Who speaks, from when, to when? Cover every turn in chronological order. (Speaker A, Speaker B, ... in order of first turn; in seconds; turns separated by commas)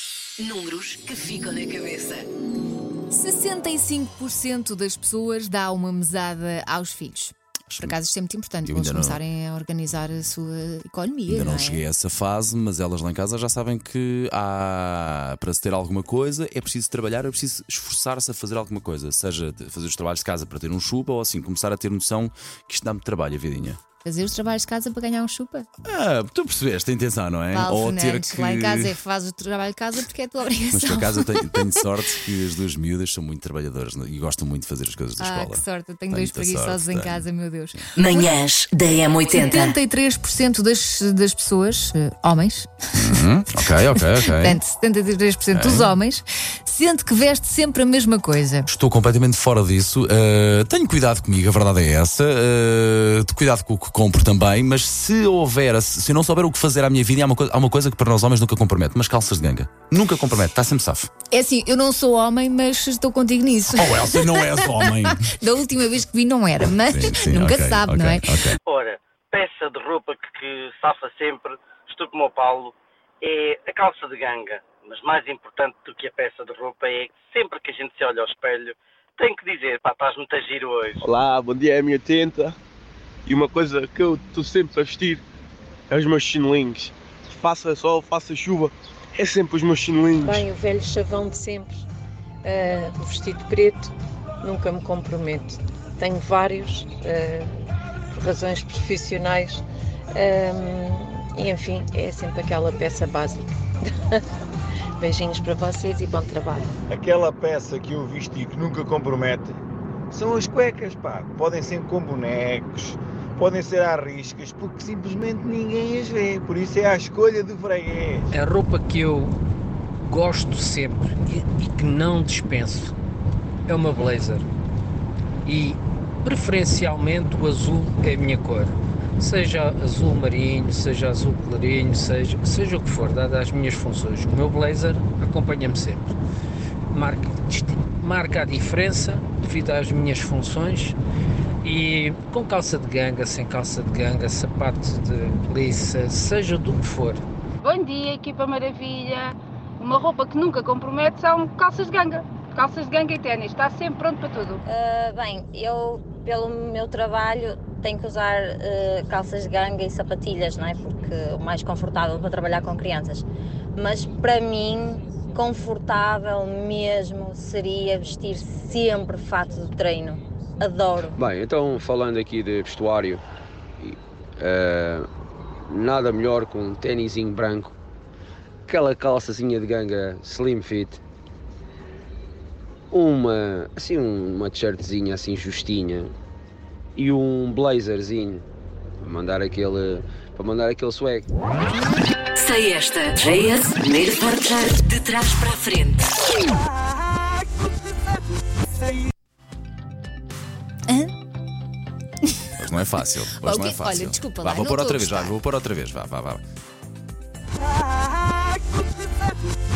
Speaker A: 0.4-2.3, Speaker B: 3.1-11.8, Speaker C: 7.7-8.0, Speaker C: 8.7-9.2, Speaker C: 11.3-23.8, Speaker B: 24.0-25.7, Speaker C: 25.8-29.0, Speaker B: 27.5-31.9, Speaker C: 30.7-37.8, Speaker B: 35.2-38.4, Speaker A: 38.0-39.8, Speaker B: 39.3-43.2, Speaker C: 43.0-44.6, Speaker B: 44.0-48.7, Speaker C: 45.5-45.9, Speaker C: 48.7-61.1, Speaker B: 61.3-68.3, Speaker C: 63.8-65.3, Speaker C: 66.9-68.6, Speaker D: 68.7-81.0, Speaker E: 81.0-82.5, Speaker E: 83.3-85.2, Speaker E: 85.9-90.5, Speaker F: 90.2-91.9, Speaker F: 92.4-93.9, Speaker F: 94.4-97.5, Speaker F: 98.2-99.6, Speaker F: 100.2-103.5, Speaker F: 105.0-106.7, Speaker G: 106.9-109.5, Speaker G: 110.1-118.2, Speaker H: 118.3-119.3, Speaker H: 120.1-122.9, Speaker H: 123.7-124.5, Speaker H: 125.5-136.1, Speaker H: 136.9-141.0, Speaker H: 141.6-147.2, Speaker I: 147.6-154.6, Speaker J: 154.7-171.2, Speaker K: 171.2-173.2, Speaker K: 173.8-175.1, Speaker K: 175.7-177.7, Speaker K: 178.7-181.0, Speaker K: 182.9-186.1, Speaker K: 187.0-188.4, Speaker K: 189.0-191.3, Speaker A: 192.4-196.1, Speaker C: 202.6-206.4, Speaker B: 203.4-205.4